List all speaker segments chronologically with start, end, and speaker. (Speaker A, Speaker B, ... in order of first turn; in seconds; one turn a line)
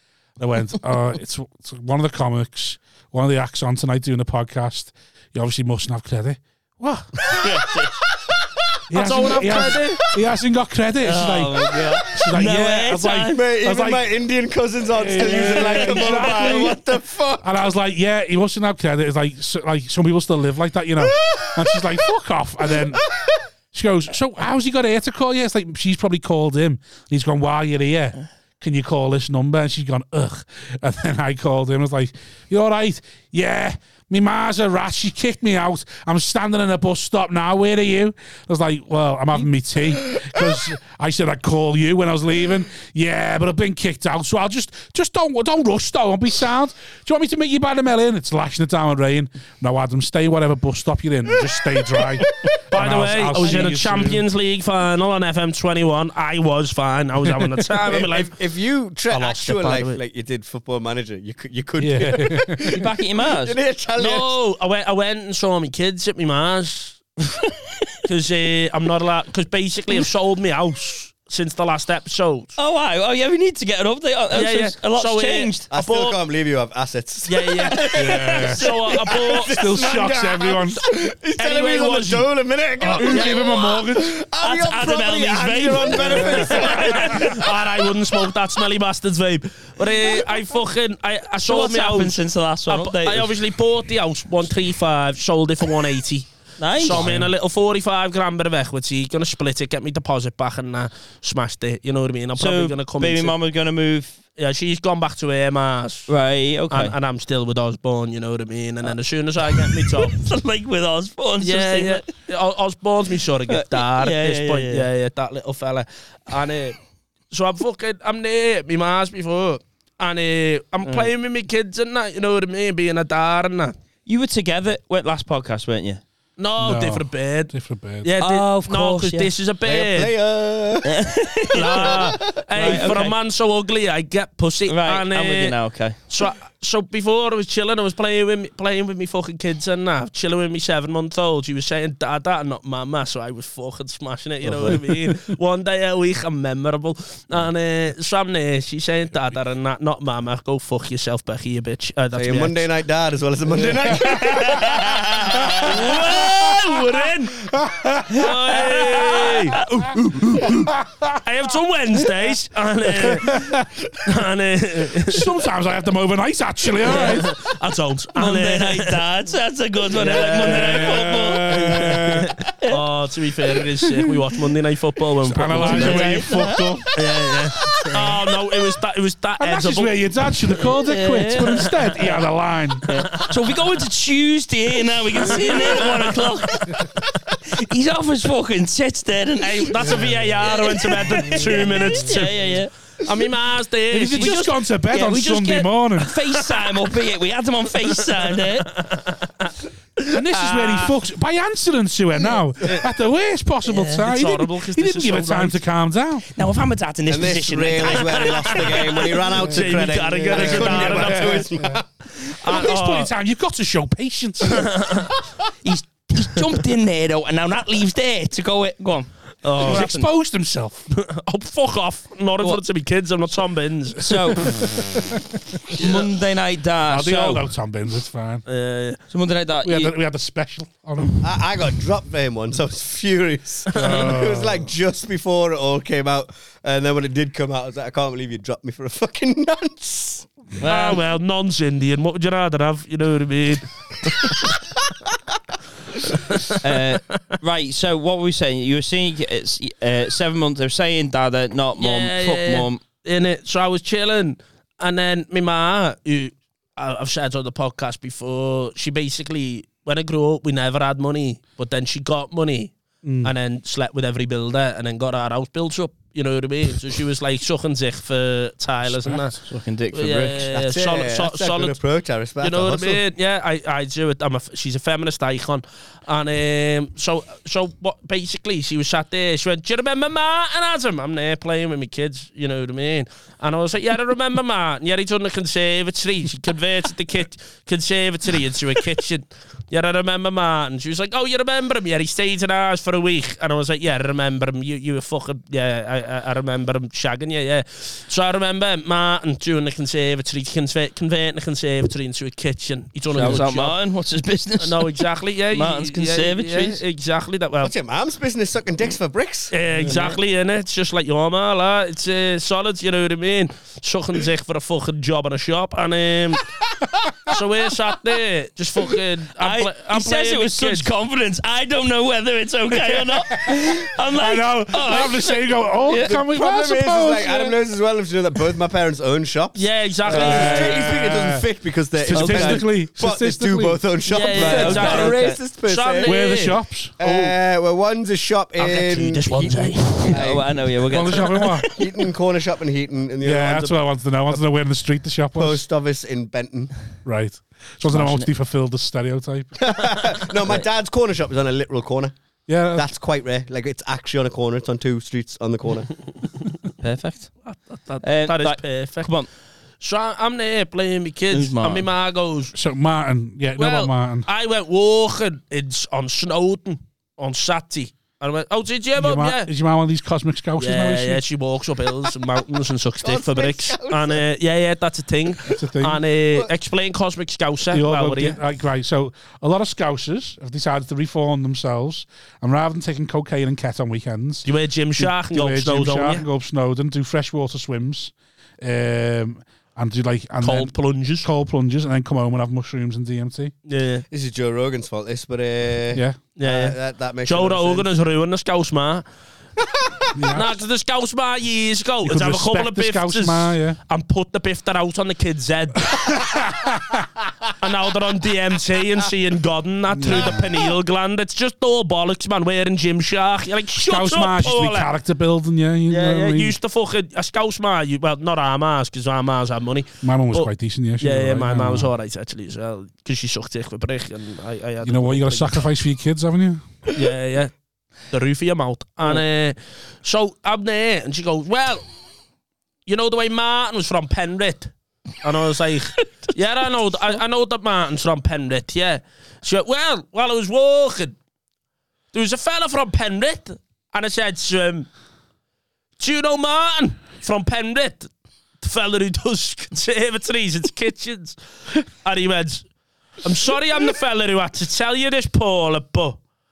Speaker A: 0.4-7.1
Speaker B: 7.3-8.0
Speaker A: 8.9-14.1
Speaker C: 8.9-10.0
Speaker B: 11.0-13.4
Speaker D: 13.1-17.5
Speaker A: 15.0-16.8
Speaker B: 15.2-16.6
Speaker A: 17.4-23.0
Speaker D: 21.0-21.8
Speaker D: 22.7-23.4
Speaker A: 23.7-54.2
Speaker C: 52.7-58.4
Speaker D: 57.9-64.3
Speaker C: 59.1-60.0
Speaker A: 61.8-62.8
Speaker B: 62.6-63.6
Speaker C: 64.0-67.0
Speaker C: 68.1-72.5
Speaker B: 72.6-75.7
Speaker C: 74.3-76.2
Speaker D: 75.7-87.7
Speaker C: 77.3-79.6
Speaker B: 77.7-79.2
Speaker A: 77.9-78.6
Speaker A: 79.5-80.8
Speaker C: 81.4-82.3
Speaker A: 82.8-84.2
Speaker C: 82.9-83.5
Speaker B: 84.4-87.3
Speaker C: 85.7-103.3
Speaker B: 91.4-93.3
Speaker B: 96.6-97.1
Speaker A: 96.9-97.3
Speaker B: 102.3-104.2
Speaker C: 104.4-106.1
Speaker B: 106.1-107.0
Speaker C: 106.7-110.2
Speaker B: 109.5-112.0
Speaker C: 111.4-116.8
Speaker B: 113.5-114.9
Speaker C: 117.3-123.8
Speaker B: 120.8-121.1
Speaker B: 124.1-126.0
Speaker C: 126.4-127.5
Speaker A: 126.6-128.1
Speaker C: 128.0-130.1
Speaker B: 128.2-129.3
Speaker D: 129.6-131.0
Speaker B: 130.8-133.2
Speaker C: 131.5-135.6
Speaker D: 131.7-132.8
Speaker B: 134.7-136.0
Speaker C: 136.1-152.7
Speaker D: 144.4-144.8
Speaker D: 152.2-155.5
Speaker C: 153.8-157.4
Speaker B: 155.3-155.8
Speaker A: 156.1-156.6
Speaker A: 157.5-158.7
Speaker C: 158.1-159.7
Speaker B: 158.2-159.7
Speaker A: 159.6-161.2
Speaker C: 161.2-163.5
Speaker A: 162.9-163.7
Speaker C: 164.0-165.3
Speaker A: 165.0-167.3
Speaker C: 166.9-169.1
Speaker B: 168.2-172.0
Speaker C: 169.8-176.4
Speaker A: 170.4-172.4
Speaker A: 175.2-176.9
Speaker B: 175.5-176.6
Speaker C: 176.9-180.1
Speaker B: 177.7-178.2
Speaker A: 179.4-182.9
Speaker B: 180.6-182.2
Speaker B: 182.9-186.9
Speaker C: 182.9-183.3
Speaker C: 185.2-186.3
Speaker B: 187.4-192.7
Speaker C: 189.4-192.4
Speaker A: 189.8-190.4
Speaker A: 191.2-191.5
Speaker C: 193.0-194.6
Speaker A: 193.9-196.2
Speaker B: 194.2-198.7
Speaker C: 198.8-199.5
Speaker A: 200.1-206.3
Speaker C: 200.1-200.9
Speaker B: 203.7-204.0
Speaker C: 203.9-205.6
Speaker B: 206.3-209.1
Speaker D: 207.1-211.8
Speaker C: 208.1-211.5
Speaker A: 210.3-214.7
Speaker C: 212.4-213.1
Speaker C: 214.5-215.1
Speaker B: 215.6-220.0
Speaker C: 219.4-220.1
Speaker A: 219.6-220.9
Speaker C: 220.9-224.2
Speaker B: 224.0-224.8
Speaker A: 224.5-225.4
Speaker B: 225.7-227.4
Speaker C: 225.8-226.1
Speaker A: 226.9-228.4
Speaker C: 228.5-229.0
Speaker B: 229.1-229.9
Speaker A: 229.6-231.3
Speaker D: 231.2-240.3
Speaker A: 233.7-234.7
Speaker C: 233.8-234.1
Speaker B: 240.6-241.0
Speaker C: 240.7-244.5
Speaker C: 246.1-247.3
Speaker B: 246.6-252.8
Speaker C: 251.8-262.7
Speaker A: 263.0-263.3
Speaker C: 263.2-269.4
Speaker A: 268.8-269.4
Speaker B: 269.4-270.5
Speaker C: 269.9-271.8
Speaker D: 270.5-273.0
Speaker C: 272.4-303.8
Speaker B: 303.1-306.8
Speaker C: 304.6-307.7
Speaker D: 307.6-309.5
Speaker C: 309.5-316.5
Speaker B: 309.8-310.2
Speaker C: 317.3-320.9
Speaker B: 319.4-326.1
Speaker A: 323.4-327.6
Speaker D: 326.0-336.2
Speaker C: 329.6-330.7
Speaker B: 330.1-331.0
Speaker A: 330.2-333.8
Speaker B: 332.1-332.7
Speaker C: 334.1-337.4
Speaker B: 334.2-335.4
Speaker A: 336.1-336.9
Speaker D: 337.0-340.5
Speaker C: 338.6-340.2
Speaker B: 340.1-341.7
Speaker A: 340.9-341.7
Speaker D: 341.7-344.4
Speaker A: 343.2-345.6
Speaker D: 345.4-346.7
Speaker A: 347.1-349.8
Speaker B: 347.9-348.3
Speaker D: 349.6-352.1
Speaker A: 352.5-352.9
Speaker D: 352.7-355.9
Speaker B: 356.8-357.3
Speaker C: 357.4-359.1
Speaker B: 358.0-359.3
Speaker C: 359.8-362.6
Speaker B: 361.3-361.9
Speaker A: 362.5-364.3
Speaker C: 363.6-369.5
Speaker A: 369.0-371.2
Speaker C: 370.6-378.4
Speaker D: 373.0-374.2
Speaker A: 375.6-376.0
Speaker A: 377.7-384.5
Speaker C: 384.5-386.2
Speaker A: 385.0-393.5
Speaker C: 390.4-391.3
Speaker C: 393.7-394.1
Speaker D: 394.1-397.9
Speaker A: 395.9-396.2
Speaker C: 396.4-399.1
Speaker A: 400.1-400.6
Speaker C: 400.3-406.2
Speaker A: 402.1-403.8
Speaker A: 405.9-407.1
Speaker C: 407.6-414.9
Speaker A: 409.9-410.5
Speaker A: 413.8-416.6
Speaker C: 415.9-425.7
Speaker A: 420.0-421.9
Speaker A: 424.8-426.6
Speaker C: 426.9-427.5
Speaker C: 428.1-431.9
Speaker C: 432.9-441.1
Speaker C: 442.1-444.9
Speaker C: 446.0-448.1
Speaker C: 448.6-452.7
Speaker C: 453.2-456.2